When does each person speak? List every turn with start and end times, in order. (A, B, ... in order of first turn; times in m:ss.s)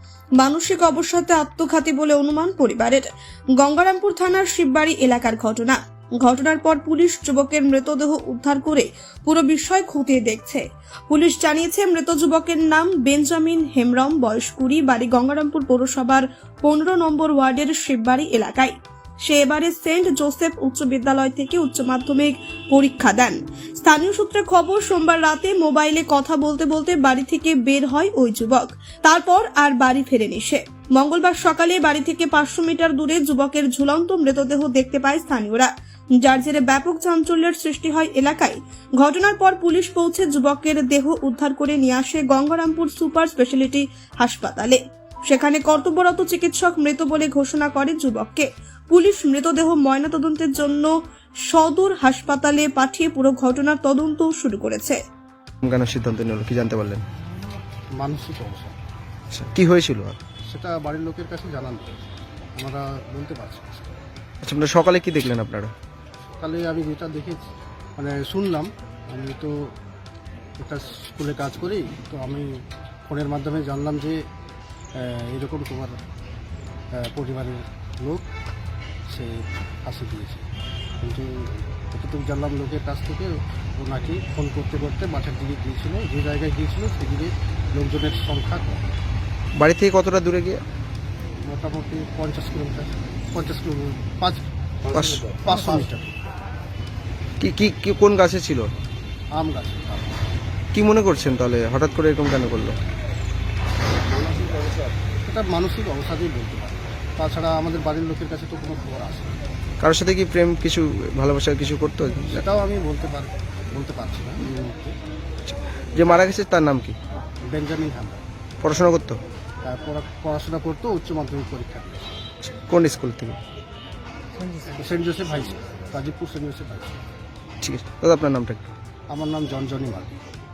0:00.4-0:03.1 A
0:03.6-0:50.9 A
0:51.5-0:55.0 A
0:55.6-0:57.0 B
0:58.0-0:58.7 C
0:59.3-1:00.2 B
1:00.5-1:01.9 C
1:02.6-1:04.0 C
1:04.4-1:05.7 B
1:06.4-1:07.4 C
1:08.0-1:09.7 C
1:10.6-1:12.5 C
1:13.1-1:14.2 C
1:15.0-1:16.0 C
1:17.0-1:18.3 C
1:19.1-1:20.4 C
1:21.0-1:28.9 C
1:29.6-1:30.6 B
1:31.5-1:36.1 C
1:34.9-1:35.8 B
1:37.4-1:38.7 B
1:39.4-1:40.2 C
1:40.7-1:42.8 B
1:44.3-1:44.7 C
1:45.3-1:49.4 C
1:49.8-1:52.4 B
1:52.2-1:54.9 C
1:55.9-1:57.0 B
1:57.5-1:58.2 C
1:58.6-1:59.2 B
1:59.6-2:02.2 C
2:02.4-2:03.4 B
2:04.8-2:07.0 C
2:07.6-2:08.7 B
2:09.1-2:10.2 C